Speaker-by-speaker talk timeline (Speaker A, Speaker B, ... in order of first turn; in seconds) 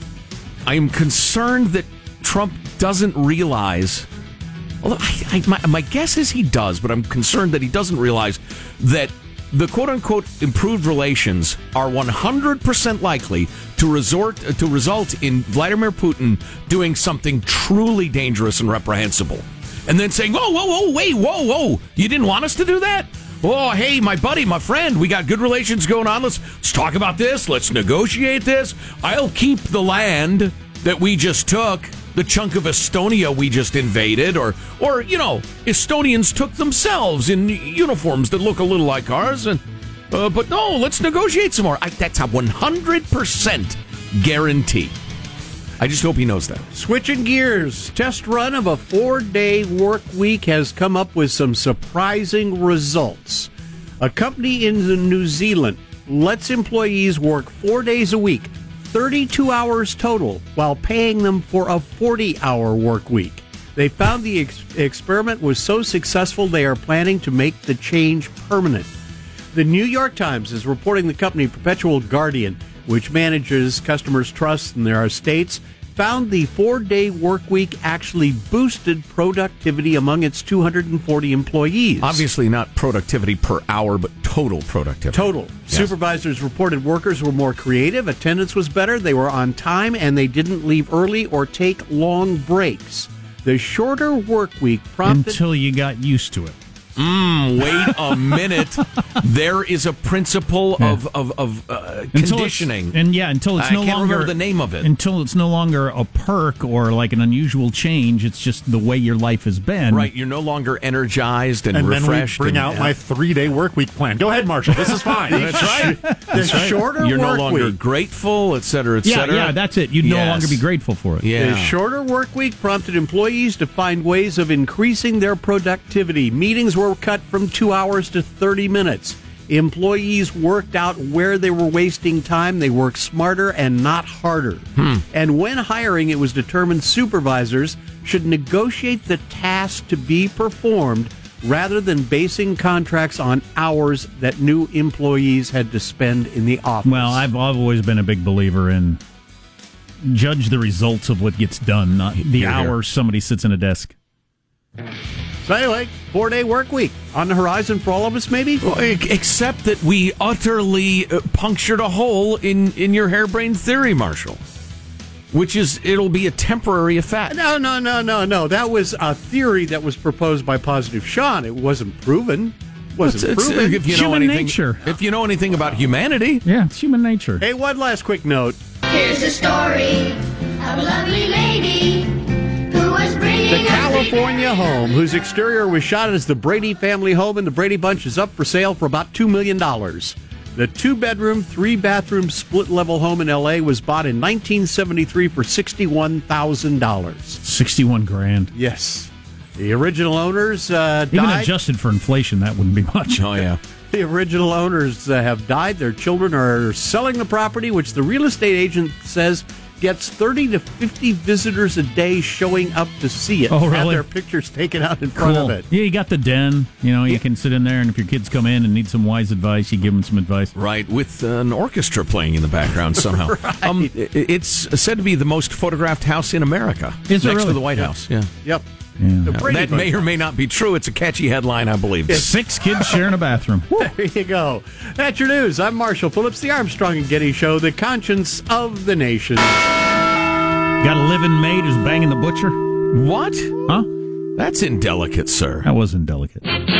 Speaker A: 0.7-4.1, 4.8-39.6, 40.1-44.9, 45.8-46.6, 82.0-85.9, 97.0-103.0, 103.6-104.9, 109.9-112.9, 115.3-120.6, 121.2-121.7, 134.8-135.0, 152.2-152.7, 158.6-164.4, 165.3-167.4, 173.0-176.4, 203.1-203.6, 220.6-228.3, 229.4-232.3, 242.9-243.7, 244.4-245.7
Speaker B: 46.7-53.5, 54.0-68.9, 69.5-82.2, 85.1-95.4, 115.3-117.8, 121.3-147.2, 155.4-158.6, 167.3-173.8, 177.4-178.6, 183.5-197.4, 198.6-201.5, 203.9-215.7, 223.0-223.9, 229.2-230.1, 233.8-239.7
Speaker C: 95.0-96.6, 102.1-110.1, 115.8-116.1, 119.0-121.3, 146.8-149.0, 150.0-153.9, 173.8-174.8, 176.4-177.4, 197.4-198.5, 201.1-203.3, 213.5-214.1, 215.2-220.5, 227.1-227.9, 229.0-229.4, 232.1-233.9, 240.8-242.6, 245.6-246.4
Speaker D: 111.7-116.9
Speaker E: 178.9-184.2